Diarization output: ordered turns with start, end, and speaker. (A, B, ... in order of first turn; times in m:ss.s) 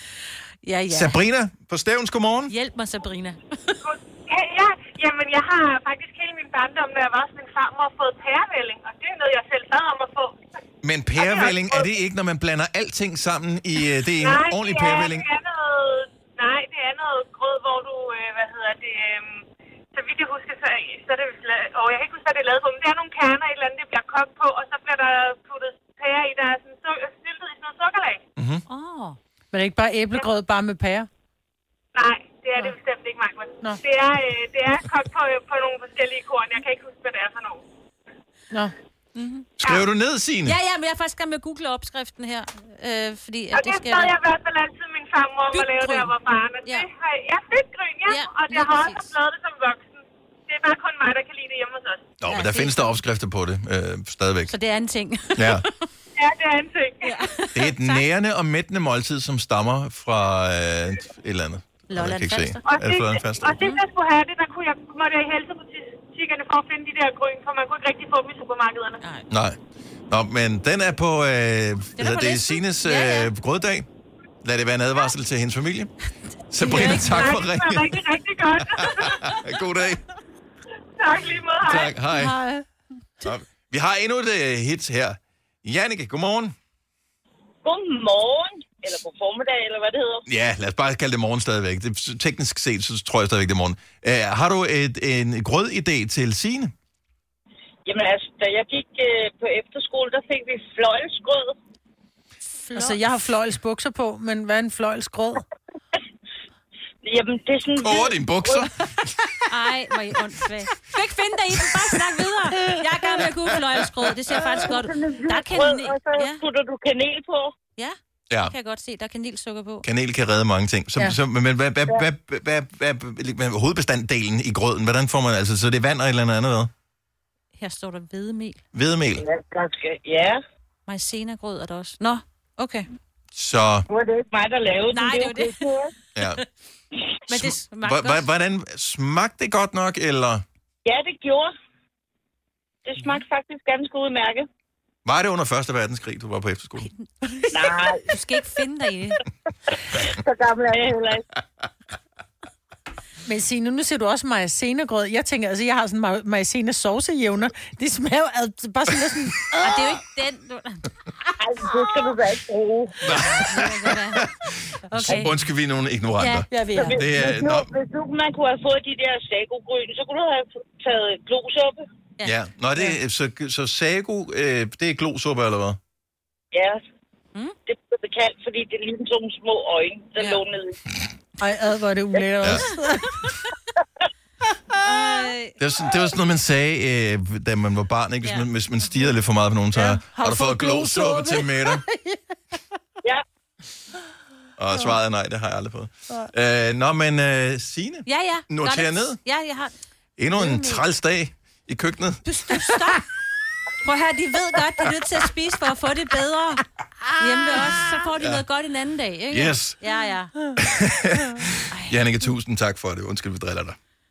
0:00.6-0:01.2 A
0:00.9-0:02.5 B
0:02.5-0:03.8 A
0:03.8-0:10.4 C
0:10.8-0:15.3 B
0:11.2-0:11.9 C
0:14.0-0:19.4 C
0:19.9-0:28.2 C
0:28.4-0:28.6 B
0:28.7-0:29.2 A
0:29.5-0:31.1 D
0:31.9-0:37.6 C
0:39.1-0:39.8 A
0:39.6-0:40.6 B
0:40.4-0:44.2 A
0:43.5-0:52.0 C
0:45.5-0:46.1 A
0:48.1-0:49.1 A
0:52.2-0:54.5 B
0:52.3-0:53.0 A
0:54.5-0:55.6 A
0:55.3-0:55.6 B
0:56.2-0:57.2 C
0:57.0-0:58.0 A
0:57.5-1:03.6 B
1:01.9-1:02.6 A
1:02.6-1:09.0 C
1:09.3-1:09.6 B
1:10.1-1:13.9 B
1:12.0-1:13.3 A
1:14.4-1:15.9 B
1:16.5-1:18.1 B
1:16.6-1:17.3 A
1:16.7-1:19.5 C
1:18.6-1:20.0 B
1:21.0-1:21.9 C
1:21.6-1:22.4 B
1:23.2-1:26.5 B
1:27.6-1:30.2 E
1:30.3-1:36.7 B
1:37.8-1:41.6 E
1:42.6-1:45.4 D
1:42.7-1:43.0 A
1:47.0-1:48.7 E
1:47.8-1:49.3 B
1:49.5-1:56.4 A
1:54.6-1:57.5 E
1:57.8-1:59.8 A
1:59.8-2:06.7 B
2:07.6-2:08.6 A
2:08.7-2:09.2 B
2:09.2-2:10.4 E
2:10.9-2:12.9 A
2:13.3-2:13.8 B
2:13.9-2:15.9 E
2:14.9-2:15.7 A
2:16.1-2:16.4 B
2:17.3-2:20.4 B
2:17.3-2:18.2 A
2:20.8-2:21.5 E
2:22.8-2:24.5 E
2:25.0-2:26.9 B
2:27.2-2:27.5 A
2:27.5-2:28.1 E
2:28.0-2:29.2 A
2:30.0-2:31.2 E
2:33.2-2:39.9 D
2:39.6-2:40.8 A
2:41.4-2:43.0 E
2:43.0-2:47.7 B
2:43.1-2:44.3 A
2:44.9-2:45.3 A
2:46.2-2:46.5 A
2:46.5-2:47.1 D
2:46.7-2:51.8 E
2:52.2-2:55.8 B
2:56.5-2:56.8 E
2:57.6-3:00.8 E
3:01.4-3:03.4 D
3:02.4-3:02.7 B
3:04.8-3:05.6 A
3:05.6-3:11.8 B
3:09.7-3:12.3 D
3:14.6-3:19.2 B
3:18.1-3:19.7 A
3:20.2-3:22.7 B
3:20.4-3:20.8 A
3:22.2-3:23.0 A
3:23.8-3:26.6 A
3:27.2-3:30.3 A
3:29.3-3:29.8 B
3:30.6-3:33.8 B
3:31.7-3:32.0 A